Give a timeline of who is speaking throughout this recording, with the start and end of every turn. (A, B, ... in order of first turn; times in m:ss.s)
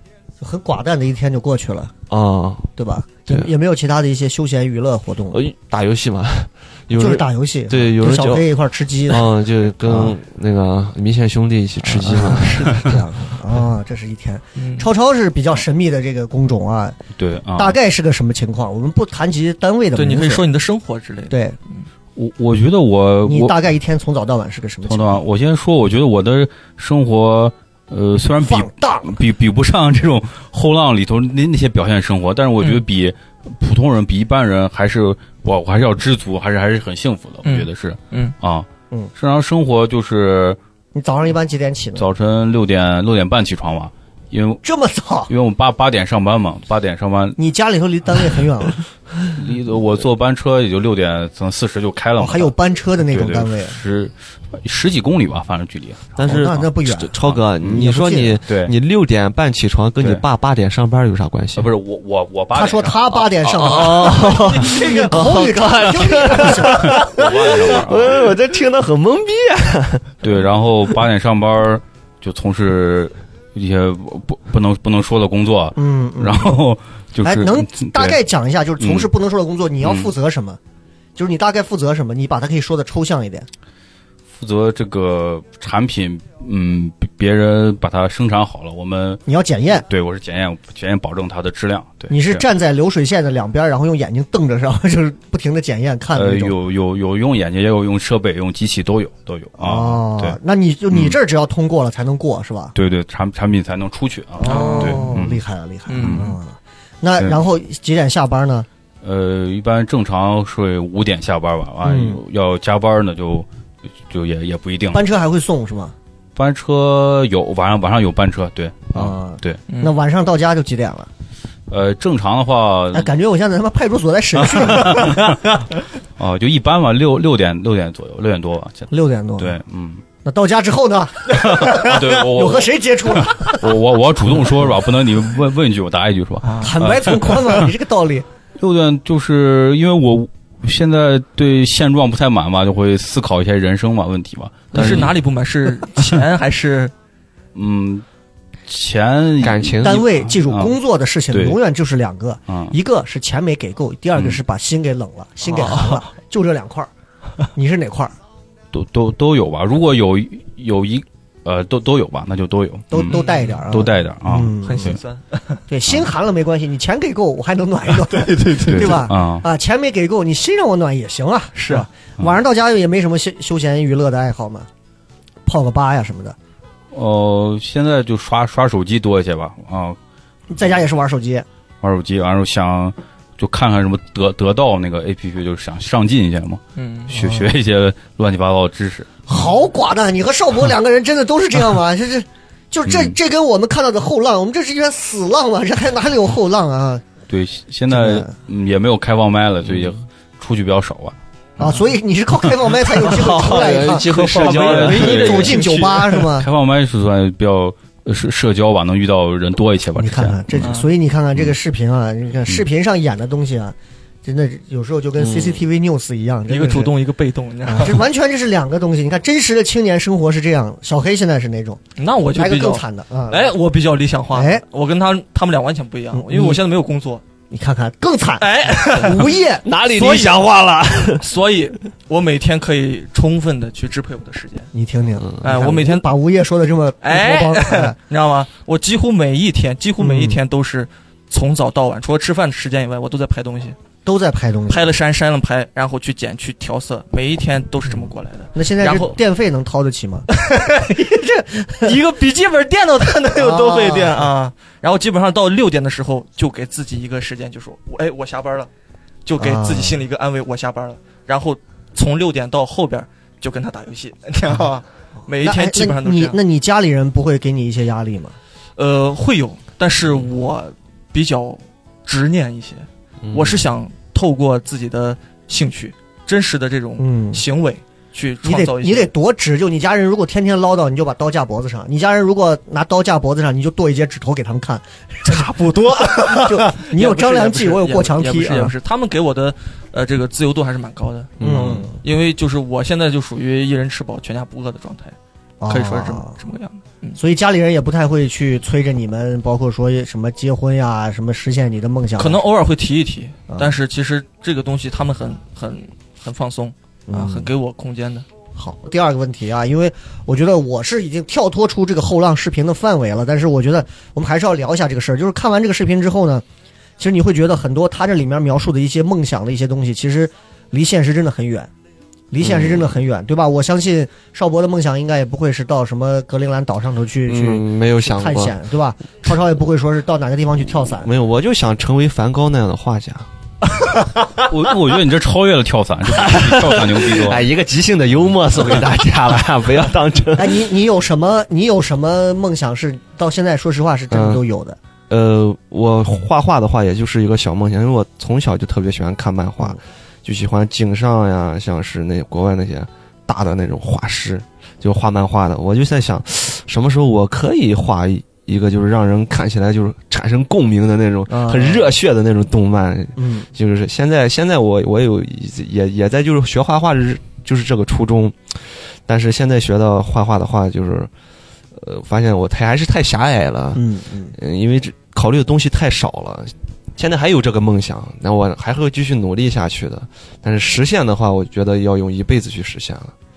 0:00.4-0:01.9 A
0:02.1-0:02.7 B
0:02.8-0:05.4 A
0:05.3-0:08.5 B
0:07.0-0:09.3 A
0:09.1-0:12.8 B
0:11.9-0:12.9 C
0:12.1-0:17.0 A
0:14.6-0:14.9 C
0:17.2-0:17.8 D
0:17.5-0:20.4 A
0:20.0-0:21.9 C
0:21.3-0:21.6 A
0:22.2-0:23.6 D
0:23.2-0:25.2 A
0:24.9-0:40.6 D
0:28.4-0:29.2 A
0:37.4-0:38.3 C
0:41.0-0:42.1 A
0:42.0-0:44.6 D
0:44.6-0:45.3 A
0:45.3-0:47.4 D
0:47.4-0:48.8 A
0:49.4-0:56.2 D
0:52.2-0:53.8 A
0:56.2-1:01.7 B
0:56.3-0:57.1 A
0:57.3-0:57.8 D
0:57.6-0:58.4 A
0:58.5-0:58.7 D
1:01.6-1:03.3 D
1:02.6-1:07.3 A
1:03.4-1:10.2 B
1:04.3-1:05.2 C
1:06.9-1:08.3 D
1:10.2-1:18.2 D
1:15.8-1:16.6 A
1:17.2-1:20.6 A
1:18.8-1:19.1 D
1:19.8-1:20.1 D
1:21.2-1:23.5 A
1:24.4-1:29.2 D
1:29.3-1:29.9 A
1:29.8-1:32.4 D
1:32.1-1:36.6 A
1:36.1-1:40.4 D
1:39.6-1:42.7 A
1:40.9-1:41.2 D
1:42.8-1:45.4 D
1:44.4-1:48.7 A
1:44.4-1:45.1 C
1:45.9-1:46.4 C
1:46.0-1:46.3 D
1:49.0-1:53.5 D
1:51.8-1:52.2 A
1:54.1-1:55.0 D
1:54.9-1:55.9 A
1:56.4-1:59.6 D
1:58.9-2:01.1 A
2:01.7-2:03.1 D
2:02.9-2:05.4 A
2:04.5-2:05.4 D
2:06.2-2:10.0 D
2:08.9-2:09.6 A
2:10.2-2:13.7 A
2:11.3-2:17.7 D
2:16.4-2:16.8 C
2:16.6-2:18.2 A
2:18.6-2:25.1 D
2:24.7-2:26.9 C
2:24.8-2:25.0 B
2:27.6-2:28.0 D
2:28.7-2:30.8 D
2:29.4-2:30.1 B
2:29.8-2:36.9 A
2:31.3-2:31.6 D
2:32.5-2:32.7 D
2:34.2-2:34.4 D
2:35.5-2:36.0 C
2:37.6-2:38.1 A
2:38.7-2:45.0 D
2:42.9-2:45.0 A
2:43.1-2:43.6 C
2:44.6-2:45.6 C
2:45.7-2:54.7 A
2:47.9-2:49.1 C
2:48.7-2:49.4 D
2:51.6-2:51.9 C
2:55.5-2:56.4 A
2:56.9-3:00.0 D
3:00.5-3:01.4 A
3:01.8-3:09.2 D
3:06.8-3:07.1 C
3:07.1-3:07.5 A
3:09.3-3:17.0 A
3:12.9-3:13.2 D
3:17.3-3:21.2 D
3:17.9-3:18.3 A
3:21.6-3:26.5 A
3:23.1-3:25.6 B
3:23.1-3:26.3 C
3:24.3-3:25.7 D
3:26.3-3:30.7 D
3:30.0-3:36.9 A
3:30.6-3:30.9 C
3:35.2-3:35.6 B
3:36.5-3:38.1 C
3:37.6-3:41.8 A
3:42.0-3:47.2 C
3:42.3-3:43.6 A
3:44.3-3:44.6 A
3:46.1-3:46.6 A
3:47.5-3:50.2 A
3:48.4-3:50.4 C
3:49.6-3:51.3 B
3:51.2-3:54.7 C
3:54.7-3:58.0 A
3:55.4-3:56.1 C
3:57.0-4:03.8 C
4:00.0-4:00.4 A
4:04.1-4:04.9 A
4:04.7-4:09.2 C
4:08.6-4:12.0 A
4:10.3-4:11.1 C
4:11.8-4:18.7 C
4:13.3-4:14.3 A
4:19.2-4:26.4 C
4:19.4-4:20.0 A
4:25.4-4:28.4 A
4:28.8-4:39.1 C
4:33.2-4:33.7 B
4:37.0-4:37.4 A
4:38.4-4:48.7 A
4:45.2-4:55.2 C
4:51.4-4:51.9 B
4:51.4-4:52.0 A
4:55.6-4:56.4 A
4:55.7-4:57.2 C
4:57.2-5:02.4 A
5:02.2-5:08.3 C
5:07.1-5:07.5 A
5:08.6-5:16.4 A
5:17.0-5:21.7 A
5:22.3-5:31.1 A
5:22.4-5:22.9 B
5:27.3-5:28.6 B
5:31.0-5:33.3 B
5:34.4-5:37.4 D
5:36.2-5:40.7 B
5:40.4-5:44.8 A
5:44.1-5:44.4 B
5:45.1-6:11.1 B
6:01.3-6:01.8 A
6:03.2-6:03.5 A
6:11.8-6:23.1 B
6:13.8-6:14.3 A